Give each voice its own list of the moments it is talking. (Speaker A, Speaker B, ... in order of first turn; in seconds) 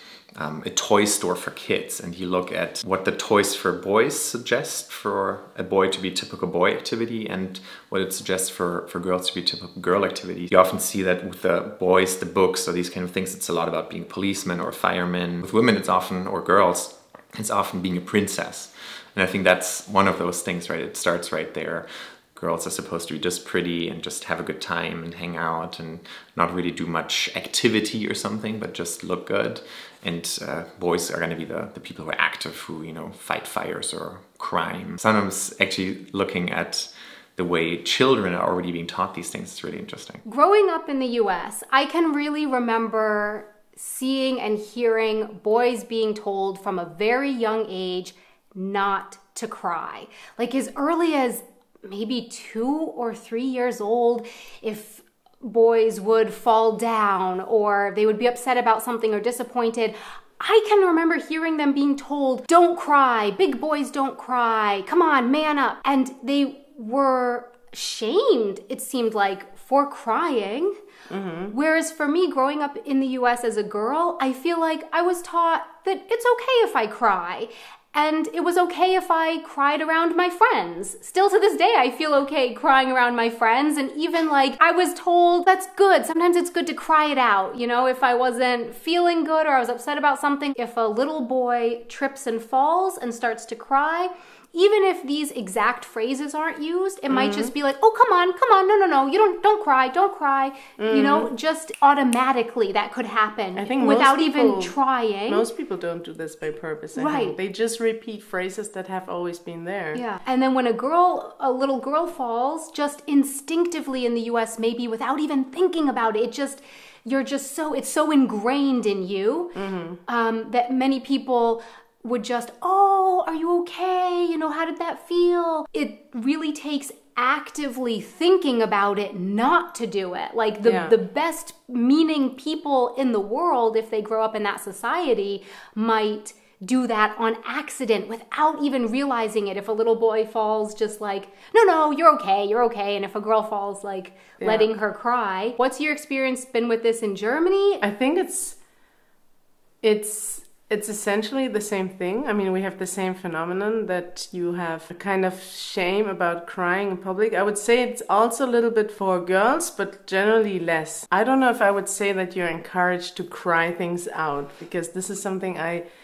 Speaker A: 0.4-40.2
Speaker B: 40.2-70.8, 71.5-105.4, 107.0-107.4, 109.9-119.5, 120.1-147.8
Speaker C: 71.1-71.5, 97.1-97.5, 100.8-101.3, 103.5-110.0, 119.5-120.0, 130.6-131.0, 144.4-144.7, 147.8-148.6, 149.8-165.9